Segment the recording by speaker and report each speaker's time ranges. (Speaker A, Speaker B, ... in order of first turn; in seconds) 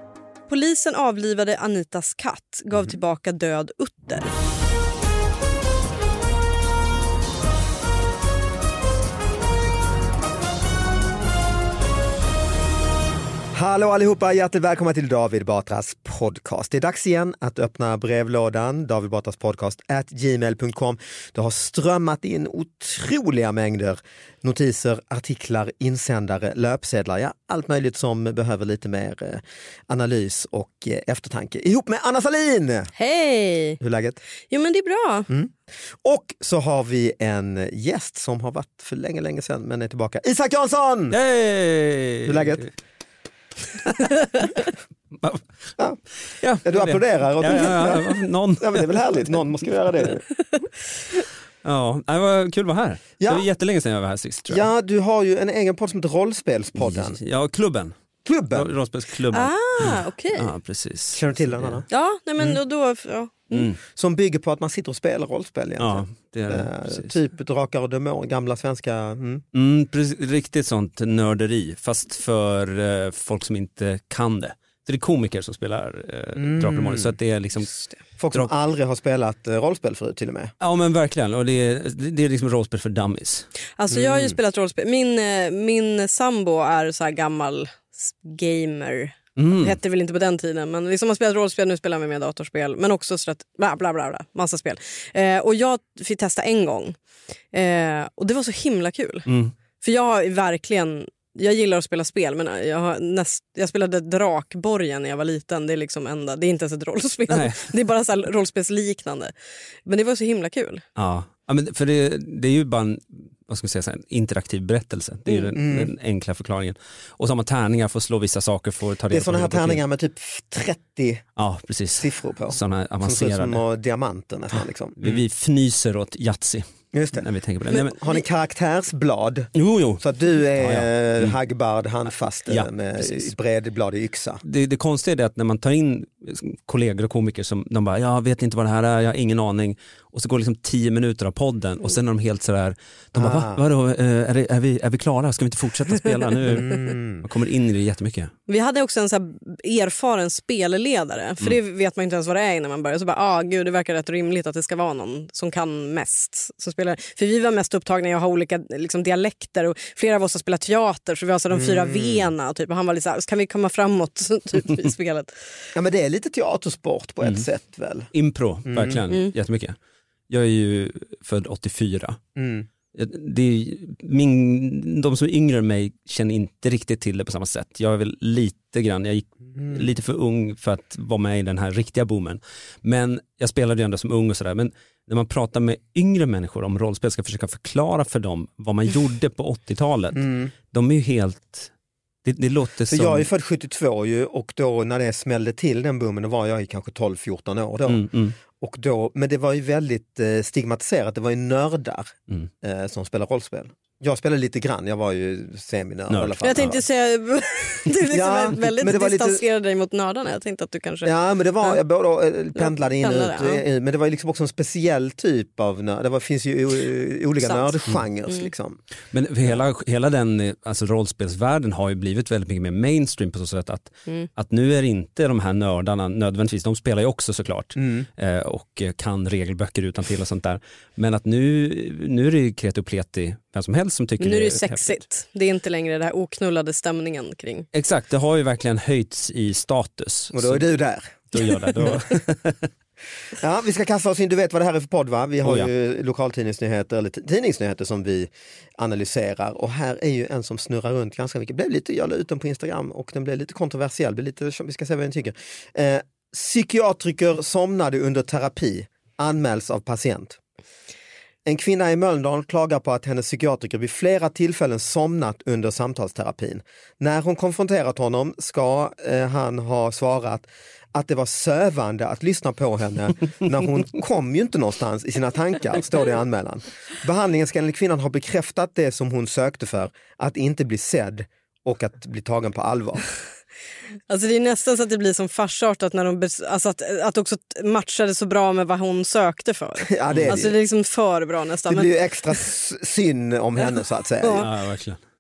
Speaker A: 0.5-4.3, 33.0-33.8, 34.5-35.3, 59.3-60.5, 61.9-63.7, 83.8-97.0, 97.5-99.3, 99.8-109.3, 109.9-110.8, 148.5-165.4, 206.4-211.8, 212.6-213.6, 217.4-217.7, 234.2-237.7, 284.1-292.4
Speaker B: 13.5-32.9, 33.8-34.2, 35.3-41.2, 42.3-42.7, 46.6-50.3, 53.2-53.5, 54.5-57.2, 58.2-58.7, 61.1-61.9, 64.0-69.4, 76.4-77.1, 78.2-80.5, 83.9-84.4, 115.5-115.9, 119.1-121.2, 122.0-125.2, 126.9-134.4, 143.2-143.6, 146.4-147.2, 161.5-162.3, 165.7-168.1, 168.7-169.0, 172.4-172.7, 190.2-190.5, 192.9-206.8, 208.1-209.4, 211.0-218.8, 240.3-242.1, 243.4-260.4, 261.5-283.1, 289.9-290.5, 291.7-294.5
Speaker C: 41.1-42.6, 43.8-44.7, 46.3-49.2, 51.6-54.7, 56.8-58.0, 58.5-61.8, 63.5-63.8, 65.8-67.2, 69.5-77.7, 80.6-83.5, 89.4-89.8, 99.3-99.5, 107.3-107.7, 111.0-119.8, 121.4-123.6, 125.0-128.0, 129.6-130.0, 130.6-131.4, 132.5-133.3, 134.4-148.3, 168.1-169.8, 170.3-172.2, 172.9-191.7, 192.2-193.3, 197.9-198.4, 206.1-206.8, 219.1-235.0, 237.7-240.6, 241.3-242.7, 245.4-245.7, 290.1-290.4, 294.3-295.0